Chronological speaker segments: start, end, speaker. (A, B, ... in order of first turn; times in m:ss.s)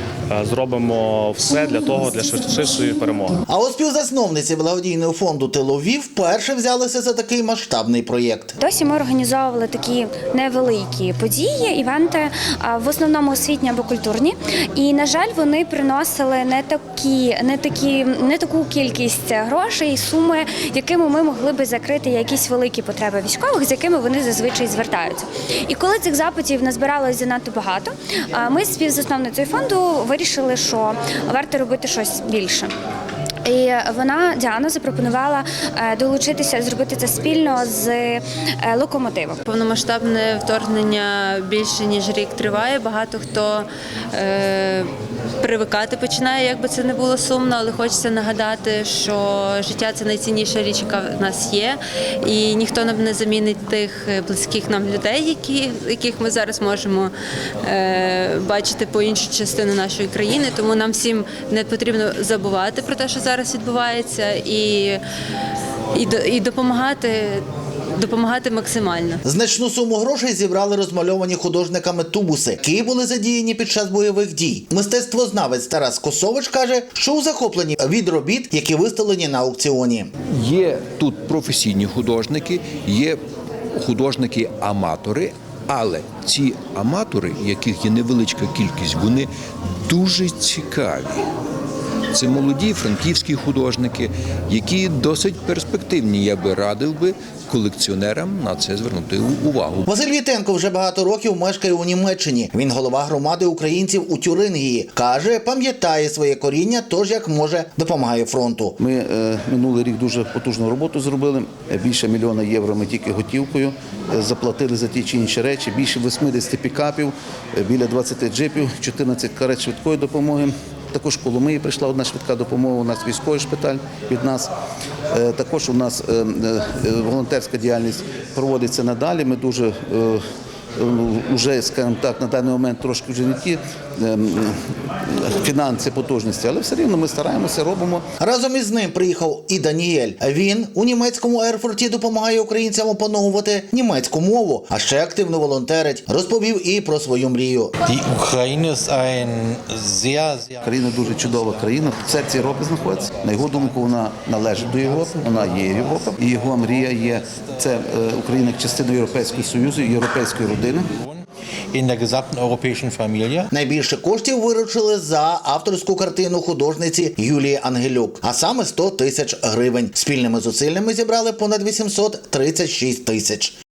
0:00.3-0:03.4 A
0:03.5-0:08.6 B
0:08.6-0:32.7 C
0:33.4-0:39.4 C
0:39.4-0:44.9 D
0:45.4-0:57.1 D
0:57.6-1:05.0 D
1:05.9-1:09.2 D
1:09.2-1:20.1 B
1:20.3-1:23.2 E
1:23.7-1:29.3 E
1:29.8-1:31.3 E
1:32.1-1:39.9 E
1:39.9-1:48.8 B
1:48.8-2:04.5 F
2:05.1-2:10.2 F
2:10.8-2:18.0 F
2:18.2-2:27.7 B
2:27.8-2:30.6 G
2:30.6-2:40.9 F
2:41.0-2:43.5 G
2:43.5-2:53.6 B